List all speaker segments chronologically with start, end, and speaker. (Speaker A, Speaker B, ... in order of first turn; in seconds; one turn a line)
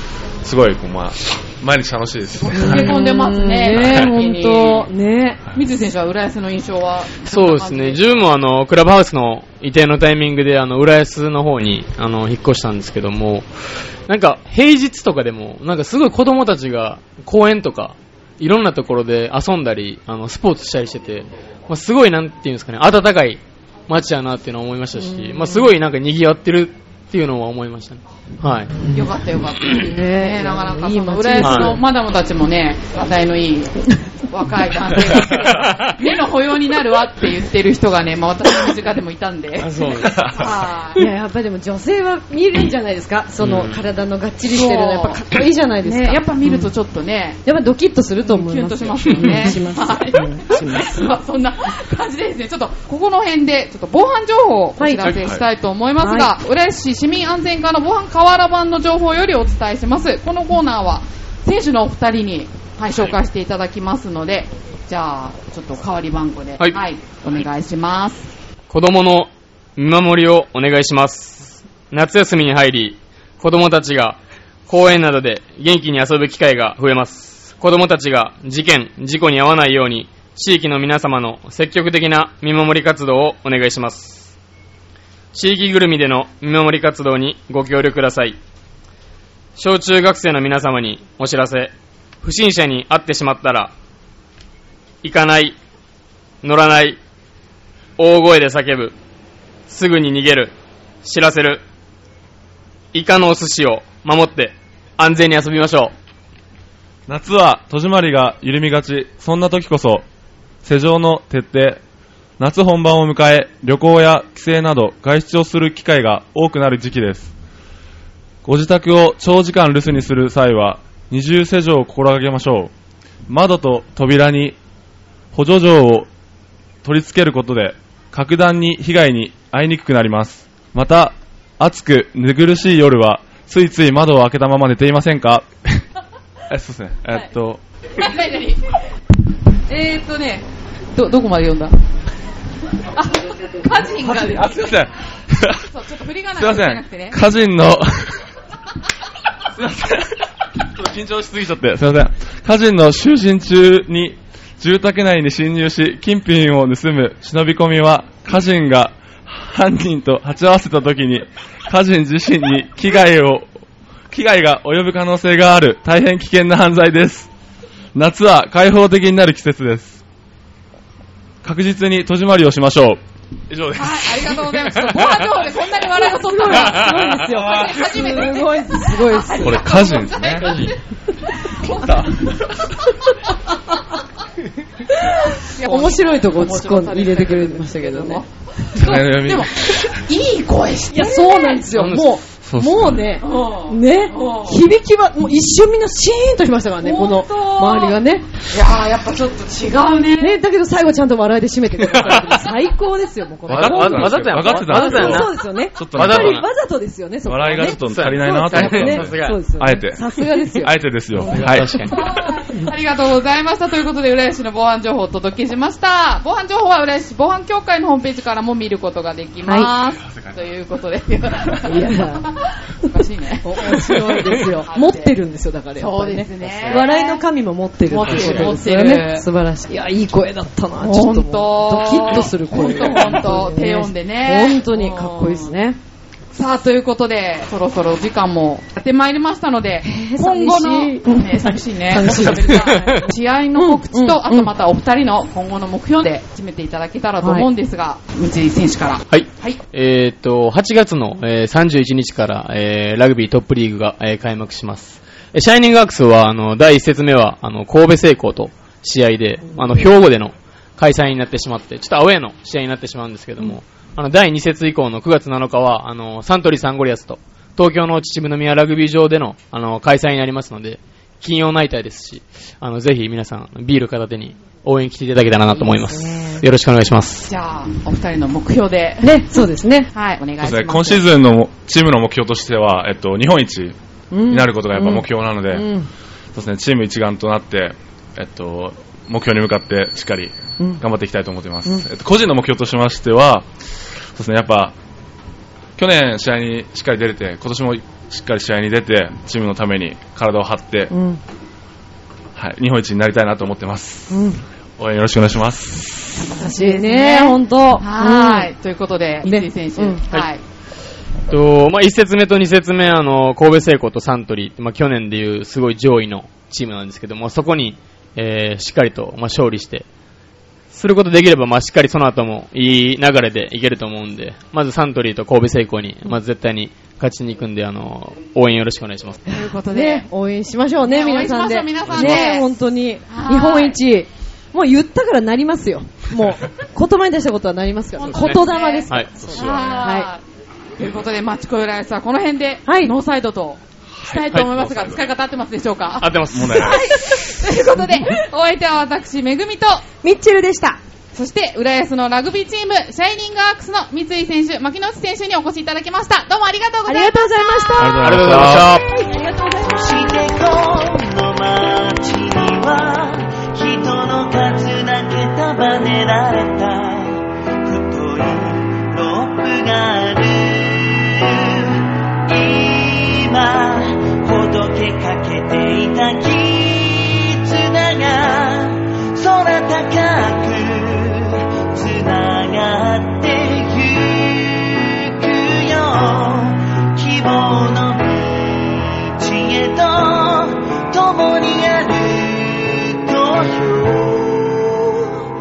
Speaker A: 0.4-3.0
Speaker B: 2.4-4.9
Speaker C: 2.5-5.4
Speaker A: 3.8-4.1
Speaker B: 5.5-8.3
Speaker D: 7.3-28.8
Speaker C: 25.0-25.7
Speaker C: 28.8-29.1
Speaker B: 28.9-41.0
Speaker C: 29.6-31.8
Speaker D: 31.4-31.8
Speaker A: 35.1-35.7
Speaker D: 35.2-36.0
Speaker D: 39.6-40.2
Speaker A: 40.0-40.6
Speaker C: 40.9-46.7
Speaker D: 43.4-43.8
Speaker B: 44.5-45.2
Speaker B: 45.8-47.4
Speaker C: 47.4-51.1
Speaker B: 48.2-68.3
Speaker D: 49.1-49.6
Speaker C: 54.8-55.1
Speaker A: 55.1-55.5
Speaker C: 56.0-56.3
Speaker D: 68.7-84.3
Speaker D: 85.3-88.4
Speaker D: 89.6-93.7
Speaker D: 95.0-95.6
Speaker D: 96.4-97.0
Speaker D: 98.0-98.9
Speaker D: 99.7-101.6
Speaker D: 102.9-105.9
Speaker A: 107.1-110.0
Speaker A: 110.6-111.8
Speaker A: 112.4-117.3
Speaker A: 118.4-122.7
Speaker A: 123.3-124.6
Speaker A: 125.3-126.1
Speaker A: 126.8-135.8
Speaker A: 136.5-137.6
Speaker B: 137.9-138.8
Speaker B: 139.7-141.7
Speaker B: 142.9-144.6
Speaker A: 144.0-145.7
Speaker B: 145.7-147.2
Speaker A: 146.3-148.3
Speaker A: 149.5-163.5
Speaker A: 164.1-167.3
Speaker A: 167.9-170.0
Speaker A: 171.4-174.6
Speaker B: 173.8-180.8
Speaker D: 174.9-175.2
Speaker C: 175.9-179.6
Speaker A: 177.3-178.0
Speaker A: 179.4-180.7
Speaker B: 181.4-182.1
Speaker A: 181.6-182.8
Speaker C: 184.9-188.2
Speaker B: 185.4-191.7
Speaker A: 188.7-189.8
Speaker C: 190.9-198.3
Speaker D: 191.7-192.2
Speaker A: 192.4-193.1
Speaker B: 193.2-194.6
Speaker B: 196.8-200.4
Speaker C: 200.2-211.4
Speaker D: 201.8-202.6
Speaker A: 203.5-206.4
Speaker D: 203.5-206.4
Speaker A: 207.3-212.3
Speaker D: 207.8-209.4
Speaker D: 211.3-212.1
Speaker B: 211.9-225.1
Speaker C: 219.4-219.7
Speaker A: 220.1-220.4
Speaker C: 221.6-222.3
Speaker C: 223.4-235.8
Speaker B: 225.8-227.2
Speaker D: 226.4-226.8
Speaker B: 227.8-229.2
Speaker D: 228.1-228.5
Speaker B: 230.8-235.6
Speaker B: 236.3-249.6
Speaker C: 239.8-244.5
Speaker D: 242.3-243.0
Speaker C: 247.2-247.5
Speaker D: 249.1-277.3
Speaker C: 259.5-259.8
Speaker C: 275.5-276.4
Speaker B: 277.3-281.0
Speaker C: 279.0-279.9
Speaker A: 280.4-283.8
Speaker C: 284.1-285.9
Speaker A: 284.3-285.7
Speaker A: 286.3-294.8
Speaker A: 295.8-300.9
Speaker C: 300.9-301.2
Speaker A: 302.4-304.2
Speaker C: 304.1-304.4
Speaker A: 304.8-306.3
Speaker B: 306.3-310.4
Speaker C: 306.4-308.5
Speaker C: 309.2-310.0
Speaker D: 311.3-319.9
Speaker D: 320.7-329.2
Speaker C: 329.3-340.1
Speaker B: 329.3-330.1
Speaker B: 330.9-332.6
Speaker D: 331.9-332.2
Speaker B: 333.1-333.8
Speaker B: 338.0-340.2
Speaker D: 338.1-339.1
Speaker A: 339.2-339.9
Speaker B: 340.8-349.9
Speaker C: 342.6-342.9
Speaker A: 343.9-345.1
Speaker D: 346.0-347.0
Speaker A: 346.3-347.0
Speaker C: 346.9-348.2
Speaker C: 350.0-350.8
Speaker B: 351.1-358.0
Speaker C: 356.9-360.2
Speaker A: 357.8-358.7
Speaker D: 358.0-358.9
Speaker E: 359.7-395.1